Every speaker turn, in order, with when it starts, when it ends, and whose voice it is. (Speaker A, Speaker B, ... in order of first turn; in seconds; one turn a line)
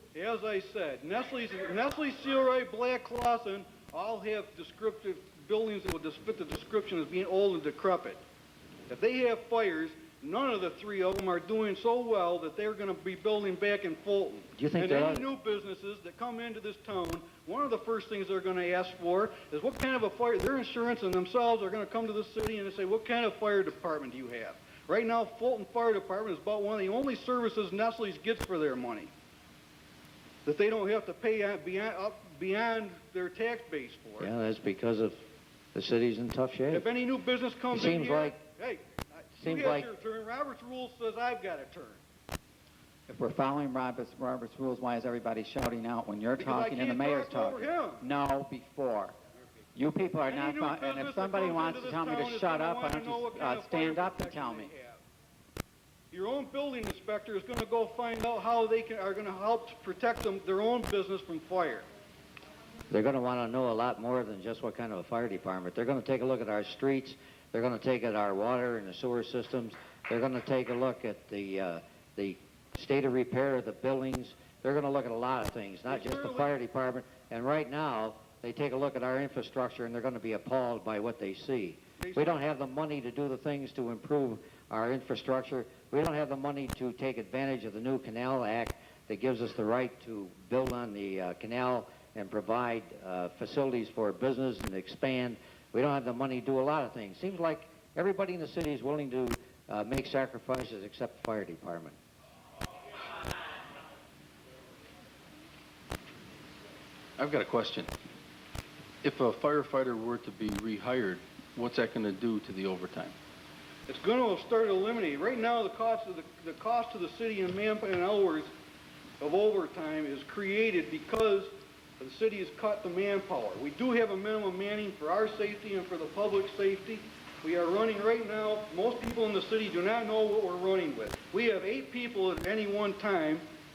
Speaker A: 0.1-8.2
Speaker A: 8.9-29.1
Speaker B: 14.6-15.2
Speaker A: 30.4-34.3
Speaker B: 34.2-35.2
Speaker B: 35.7-36.9
Speaker A: 36.7-42.0
Speaker B: 37.7-38.4
Speaker B: 39.4-39.9
Speaker C: 43.1-49.1
Speaker A: 46.4-48.0
Speaker C: 49.7-54.7
Speaker A: 50.3-55.0
Speaker A: 56.1-61.9
Speaker B: 62.9-102.0
Speaker A: 75.9-76.5
Speaker A: 82.0-82.4
Speaker D: 107.2-107.9
Speaker D: 109.0-113.1
Speaker A: 113.9-118.5
Speaker A: 119.2-133.4